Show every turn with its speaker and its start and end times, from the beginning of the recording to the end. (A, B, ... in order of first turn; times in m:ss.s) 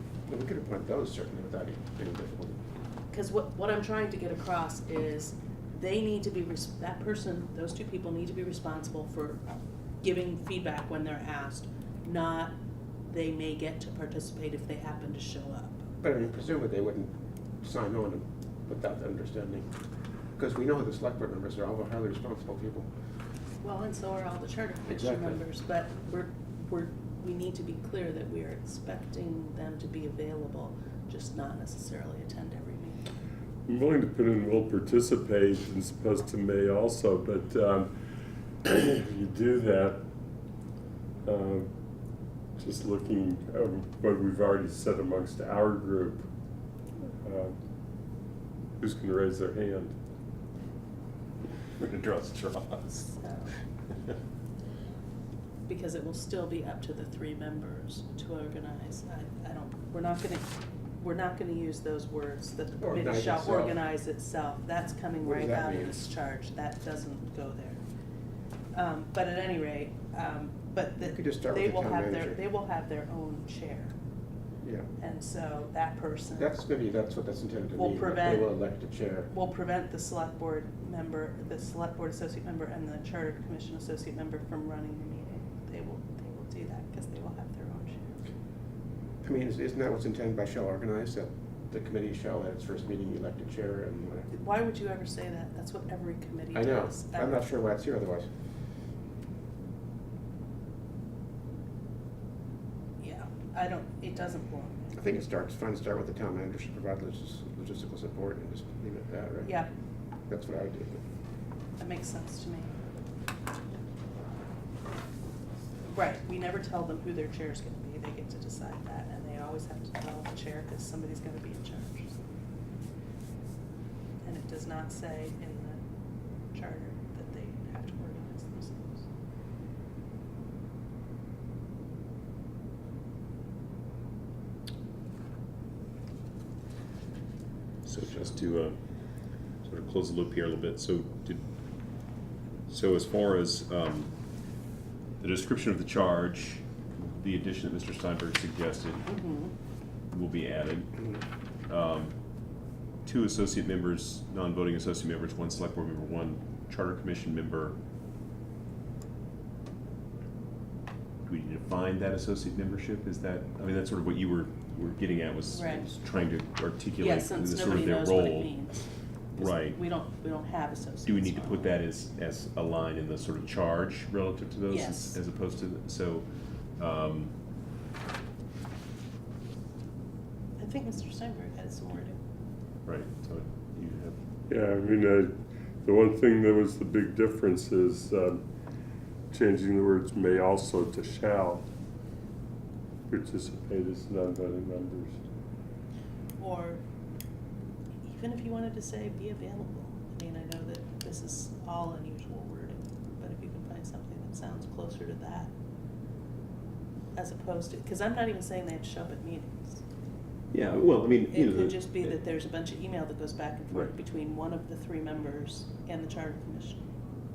0:00.3-0:02.6 A
0:03.1-0:09.4 B
0:10.0-0:12.6 B
0:13.1-0:15.8 B
0:16.0-0:19.7 A
0:20.4-0:22.9 A
0:23.6-0:33.0 B
0:24.9-0:25.4 A
0:33.7-0:37.9 C
0:38.6-0:40.0 C
0:41.2-0:41.7 C
0:42.6-0:46.3 C
0:47.1-0:47.6 C
0:48.8-0:50.0 C
0:51.8-0:53.2 D
0:53.2-0:53.5 B
0:55.7-1:07.8 B
1:02.8-1:03.8 A
1:05.2-1:06.0 A
1:08.7-1:14.0 B
1:11.0-1:12.4 A
1:14.6-1:14.9 A
1:15.0-1:16.5 B
1:16.4-1:19.3 A
1:17.8-1:18.5 B
1:19.3-1:28.3 B
1:29.2-1:34.3 A
1:34.3-1:37.4 B
1:36.5-1:38.3 A
1:43.0-1:44.9 B
1:44.9-1:49.6 A
1:50.3-1:51.0 A
1:51.8-1:52.7 B
1:55.9-2:02.2 B
2:04.2-2:05.8 B
2:06.5-2:09.1 B
2:17.8-2:18.8 D
2:19.6-2:21.4 D
2:22.7-2:24.1 D
2:25.2-2:29.1 D
2:29.1-2:29.5 B
2:30.1-2:31.0 D
2:31.7-2:32.1 D
2:33.0-2:37.8 D
2:41.3-2:48.6 D
2:45.5-2:45.9 B
2:47.0-2:48.9 B
2:49.4-2:49.8 D
2:49.4-2:51.8 B
2:51.0-2:57.3 D
2:54.7-2:55.2 B
3:00.6-3:02.2 B
3:02.8-3:04.2 D
3:04.5-3:08.4 C
3:09.3-3:11.6 C
3:13.1-3:15.2 C
3:16.4-3:16.8 B
3:18.0-3:25.5 B
3:27.2-3:29.8 B
3:30.5-3:32.2 D
3:31.3-3:36.8 B